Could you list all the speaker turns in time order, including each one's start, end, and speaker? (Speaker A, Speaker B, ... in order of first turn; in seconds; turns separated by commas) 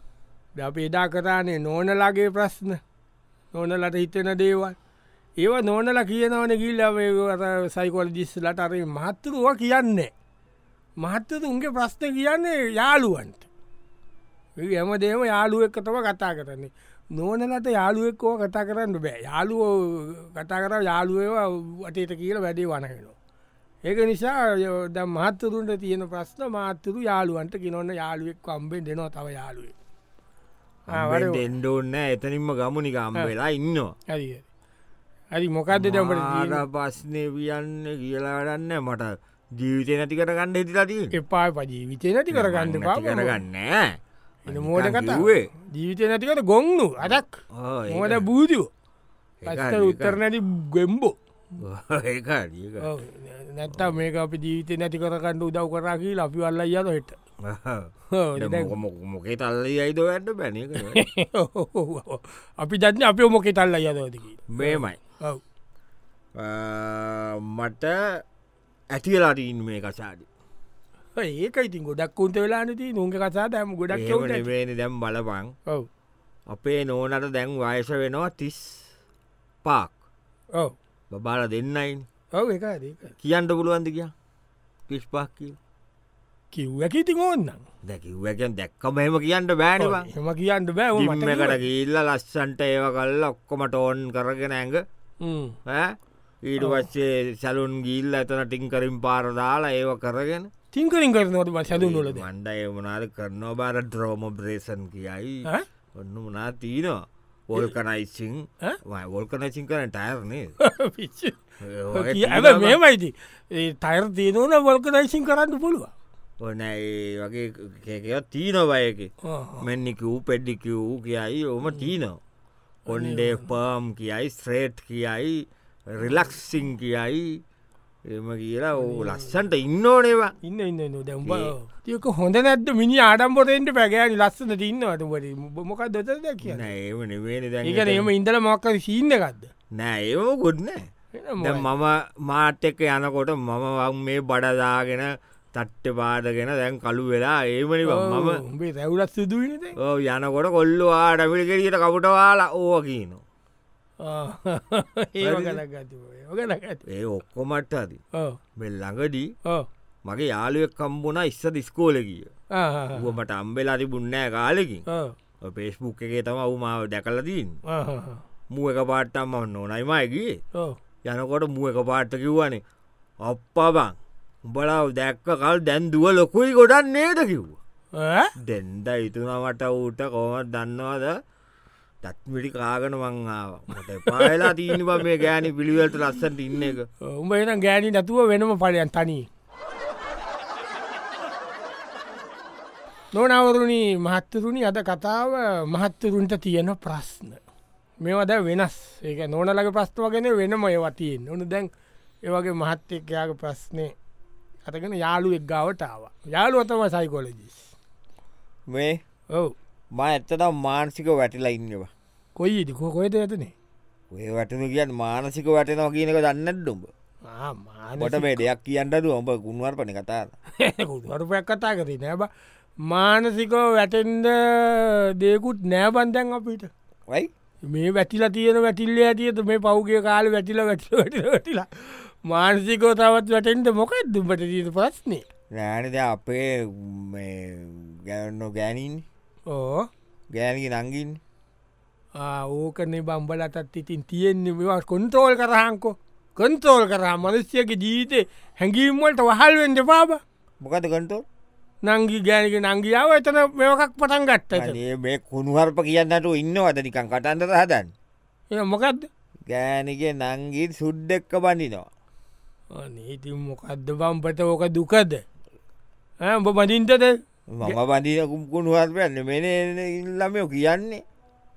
Speaker A: 0.6-2.8, Speaker A: 3.5-4.8, Speaker A: 5.4-10.1, Speaker A: 11.0-13.5, Speaker A: 14.6-23.1, Speaker A: 23.9-29.7, Speaker A: 30.9-31.4, Speaker B: 30.9-33.9, Speaker A: 34.1-34.5, Speaker A: 35.3-36.6, Speaker B: 35.7-41.1, Speaker A: 41.1-43.4, Speaker B: 42.3-45.5, Speaker A: 44.5-47.4, Speaker B: 47.0-48.3, Speaker A: 47.9-48.7, Speaker B: 49.4-50.2, Speaker A: 49.5-51.1, Speaker B: 51.6-52.9, Speaker A: 52.8-57.2, Speaker B: 57.4-61.0, Speaker A: 58.1-58.8, Speaker A: 60.8-65.4, Speaker B: 64.5-65.0, Speaker B: 66.3-68.2, Speaker B: 68.9-70.3, Speaker A: 71.2-74.5, Speaker B: 73.9-75.5, Speaker B: 76.5-78.9, Speaker B: 79.6-80.0, Speaker B: 81.1-82.1, Speaker A: 82.3-83.2, Speaker B: 83.2-84.1, Speaker B: 84.9-85.6, Speaker A: 86.5-87.6, Speaker B: 87.8-90.1, Speaker A: 89.8-91.6, Speaker B: 90.9-94.8, Speaker A: 95.2-95.6, Speaker B: 95.7-100.5, Speaker A: 96.6-96.9, Speaker A: 100.7-102.3, Speaker B: 101.7-110.5, Speaker A: 110.6-111.4, Speaker B: 111.6-112.8, Speaker A: 111.9-115.9, Speaker B: 116.4-122.2, Speaker A: 119.2-119.7, Speaker B: 122.9-127.4, Speaker A: 122.9-123.5, Speaker B: 128.1-130.3, Speaker A: 128.8-129.4, Speaker A: 130.4-136.7, Speaker B: 131.2-131.5, Speaker B: 136.4-138.1, Speaker A: 137.6-139.5, Speaker B: 139.8-140.8, Speaker A: 141.2-141.7, Speaker B: 141.4-148.4, Speaker A: 147.8-149.8, Speaker B: 149.8-153.2, Speaker A: 154.0-156.8, Speaker B: 155.2-155.6, Speaker B: 156.9-158.0, Speaker A: 158.1-158.4, Speaker B: 158.6-159.3, Speaker B: 160.1-162.3, Speaker A: 162.6-163.1, Speaker B: 162.9-164.8, Speaker A: 164.9-165.2, Speaker B: 165.4-167.6, Speaker A: 167.7-168.2, Speaker B: 168.5-170.4, Speaker B: 171.1-172.6, Speaker B: 173.2-177.6, Speaker A: 177.9-178.3, Speaker B: 178.4-181.2, Speaker B: 182.0-186.9, Speaker A: 184.0-185.0, Speaker A: 187.0-189.3, Speaker A: 193.1-197.4, Speaker A: 198.0-201.7, Speaker A: 202.3-203.9, Speaker A: 204.7-207.7, Speaker B: 208.7-209.0, Speaker B: 209.9-211.9, Speaker A: 212.4-213.5, Speaker B: 214.1-216.9, Speaker A: 217.3-218.4, Speaker B: 218.0-220.3, Speaker A: 220.6-222.3, Speaker A: 222.8-226.7, Speaker A: 227.7-235.2, Speaker B: 235.5-239.0, Speaker A: 239.5-239.9, Speaker B: 240.3-241.2, Speaker A: 242.2-250.2, Speaker B: 250.6-251.2, Speaker A: 251.8-254.8, Speaker B: 254.5-257.9, Speaker A: 258.5-259.1, Speaker B: 259.5-261.9, Speaker A: 262.7-265.2, Speaker A: 266.2-267.8, Speaker B: 267.5-271.0